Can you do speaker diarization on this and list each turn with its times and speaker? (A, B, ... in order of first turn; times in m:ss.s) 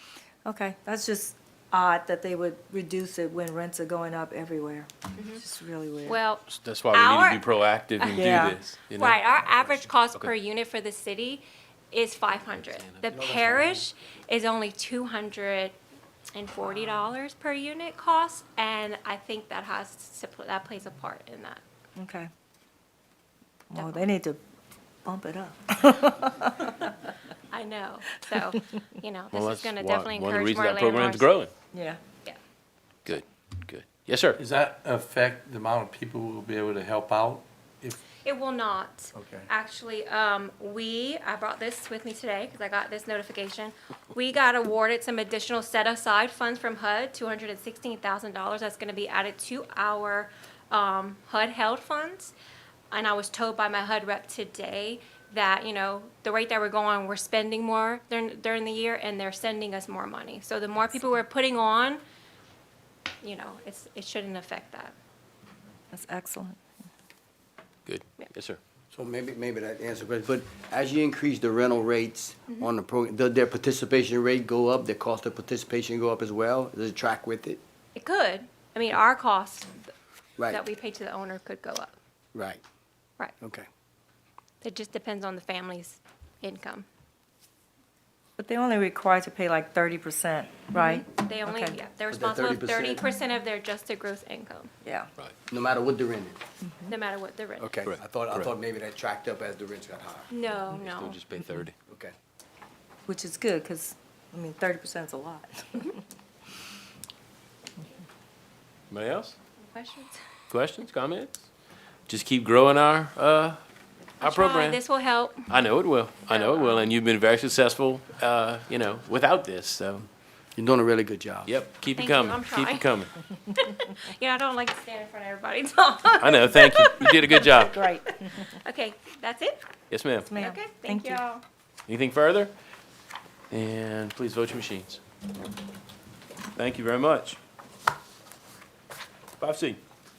0:00.4-0:06.2 A
0:05.2-0:05.4 B
0:06.1-0:07.4 B
0:06.5-0:10.3 C
0:08.0-0:15.8 B
0:08.2-0:08.6 A
0:12.7-0:13.1 C
0:13.1-0:13.8 D
0:16.4-0:21.6 B
0:22.0-0:22.3 A
0:23.7-0:24.4 A
0:23.7-0:24.0 B
0:25.0-0:26.8 A
0:27.5-0:31.4 B
0:29.3-0:31.5 C
0:31.7-0:32.0 A
0:33.1-0:34.4 C
0:34.4-0:38.0 E
0:38.2-0:52.3 B
0:39.2-0:39.5 E
0:52.9-1:02.0 B
1:03.2-1:05.0 B
1:05.9-1:06.6 A
1:07.9-1:08.6 C
1:08.9-1:17.6 D
1:18.0-1:19.9 B
1:20.5-1:22.0 B
1:22.3-1:22.6 D
1:23.4-1:23.7 D
1:24.6-1:26.9 B
1:28.4-1:31.8 A
1:30.7-1:34.7 B
1:32.1-1:33.0 D
1:35.5-1:36.4 D
1:36.9-1:37.7 B
1:37.6-1:40.3 D
1:37.9-1:38.5 C
1:40.3-1:41.2 B
1:40.7-1:41.8 C
1:43.1-1:46.0 A
1:48.9-1:49.4 C
1:49.6-1:50.2 B
1:50.5-1:51.4 C
1:52.1-1:53.6 C
1:54.2-1:54.8 C
1:54.2-1:55.5 B
1:55.5-2:00.1 C
1:56.3-1:56.9 B
2:00.6-2:01.5 D
2:01.5-2:03.1 C
2:02.0-2:02.9 B
2:03.5-2:07.5 B
2:06.2-2:07.8 C
2:07.6-2:08.2 A
2:08.0-2:09.6 B
2:09.9-2:10.3 C
2:10.3-2:11.2 A
2:10.4-2:11.4 B
2:11.9-2:12.5 C
2:13.5-2:15.0 C
2:16.6-2:17.4 C
2:19.4-2:19.8 C